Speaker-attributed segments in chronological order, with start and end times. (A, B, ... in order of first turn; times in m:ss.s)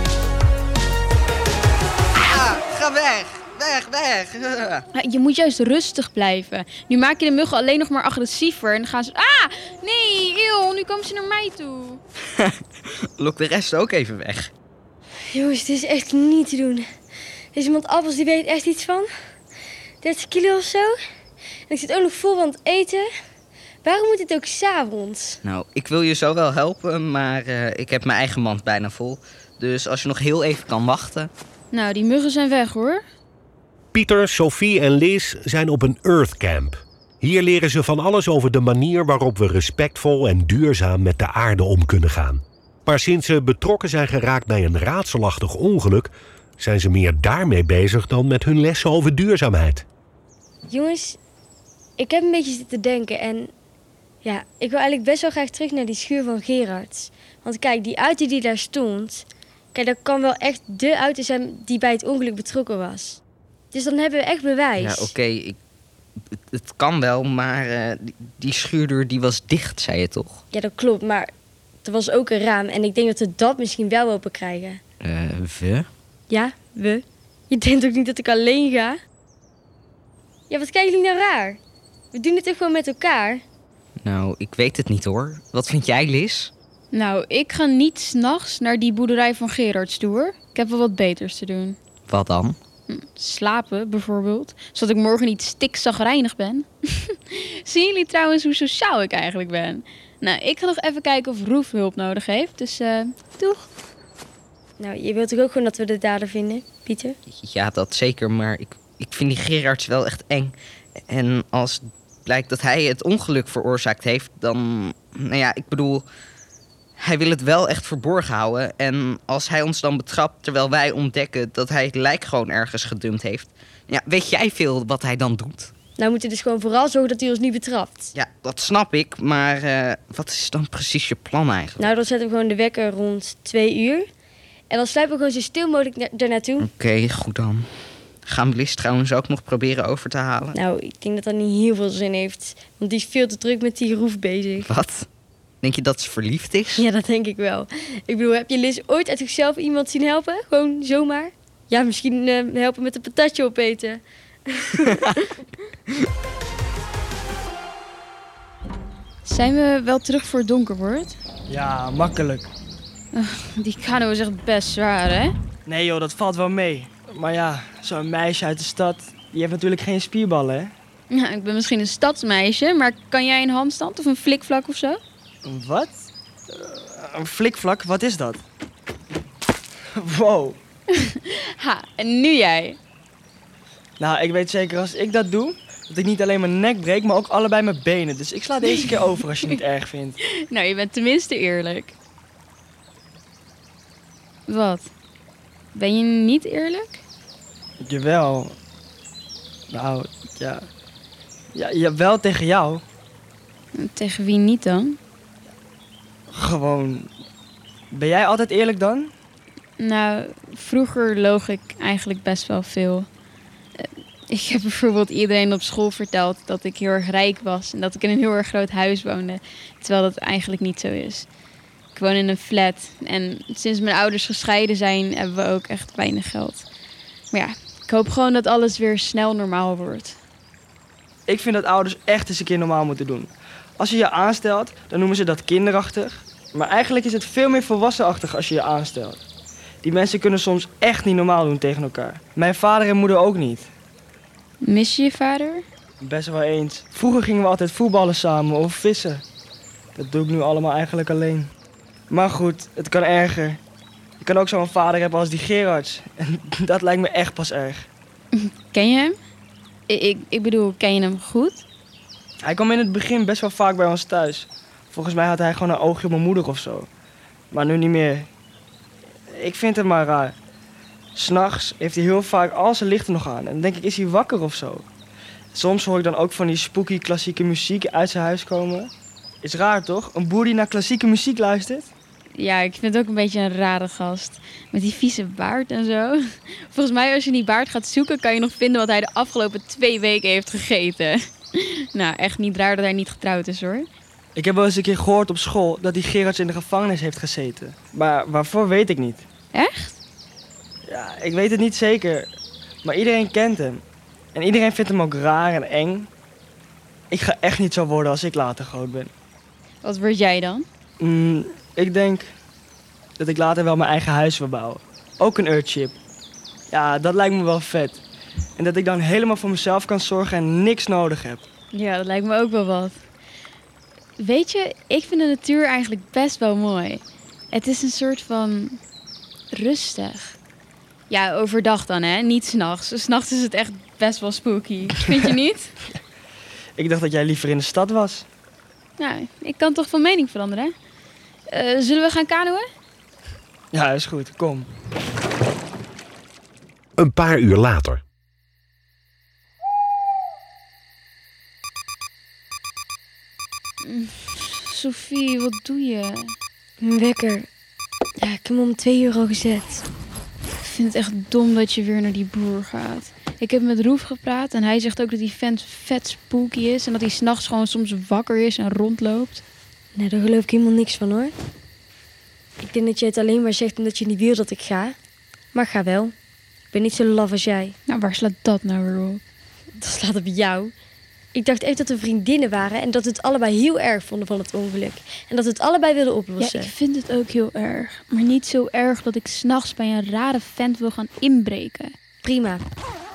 0:02.1-0:04.8 A
0:04.9-0:12.0 B
0:13.2-0:14.5 A
0:15.3-0:16.9 C
0:17.5-0:19.1 C
0:20.0-0:20.9 C
0:21.7-0:23.1 C
0:23.8-0:25.4 C
0:25.4-0:31.3 A
0:31.7-0:33.0 B
0:33.9-0:49.8 D
0:50.7-0:51.2 C
0:52.0-0:53.5 C
0:54.2-1:03.2 C
1:03.7-1:05.1 C
1:04.8-1:05.6 A
1:06.5-1:10.4 A
1:10.5-1:11.3 C
1:11.8-1:14.8 C
1:15.0-1:15.9 A
1:16.3-1:19.0 C
1:20.5-1:21.6 C
1:22.1-1:23.4 C
1:24.0-1:26.5 A
1:26.9-1:31.8 B
1:32.1-1:32.6 A
1:32.9-1:43.6 B
1:44.8-1:47.2 C
1:47.4-1:50.6 A
1:51.1-1:56.0 A
1:57.0-2:05.7 A
2:06.0-2:08.1 C
2:08.1-2:11.9 A
2:11.8-2:14.1 C
2:14.7-2:16.7 C
2:16.6-2:17.7 A
2:18.2-2:20.6 A
2:20.5-2:24.7 C
2:24.6-2:25.1 A
2:25.6-2:26.8 A
2:26.8-2:35.2 C
2:39.2-2:41.2 B
2:41.5-2:42.5 E
2:43.1-2:45.3 B
2:45.6-2:50.7 E
2:51.1-2:55.0 B
2:55.4-2:58.4 E
3:00.0-3:00.6 E
3:00.9-3:02.8 B
3:04.0-3:10.2 E
3:10.2-3:11.9 B
3:14.5-3:14.9 B
3:15.7-3:17.0 B
3:17.8-3:18.6 E
3:19.7-3:20.7 E
3:21.5-3:22.8 E
3:23.8-3:25.0 B
3:26.3-3:27.1 E
3:27.9-3:29.1 E
3:29.8-3:33.1 B
3:33.8-3:41.3 B
3:41.9-3:46.6 B
3:47.3-3:50.2 B
3:51.3-3:59.2 E
3:59.8-4:03.7 E
4:04.6-4:05.6 B
4:06.0-4:09.2 E
4:10.0-4:11.5 E
4:12.1-4:13.6 E
4:14.2-4:17.9 E
4:18.3-4:19.2 B
4:19.9-4:21.6 B
4:22.4-4:26.9 E
4:27.5-4:28.3 E
4:29.3-4:30.4 E
4:31.1-4:34.8 E
4:35.5-4:41.9 E
4:42.4-4:53.9 B
4:54.4-4:59.2 E
4:59.5-5:00.0 B
5:00.9-5:02.3 E
5:02.8-5:03.8 E
5:04.3-5:06.1 E
5:07.1-5:09.1 E
5:09.8-5:10.6 B
5:11.0-5:12.3 E
5:13.2-5:16.0 E
5:16.7-5:18.0 E
5:18.6-5:21.4 E
5:21.7-5:23.0 B
5:24.2-5:28.8 B
5:29.5-5:30.4 B
5:31.1-5:35.7 B
5:36.8-5:38.3 E
5:39.0-5:40.7 B
5:41.5-5:42.7 B
5:43.7-5:44.7 E
5:47.0-5:48.0 D
5:53.8-5:56.3 B
5:56.8-5:57.5 C
5:58.2-5:59.8 C
6:00.6-6:09.4 B
6:09.9-6:11.3 C
6:12.6-6:14.9 C
6:15.5-6:16.1 C
6:16.7-6:17.7 C
6:17.9-6:19.2 B
6:19.8-6:20.7 C
6:21.3-6:26.7 C
6:26.4-6:31.9 B
6:32.2-6:32.6 C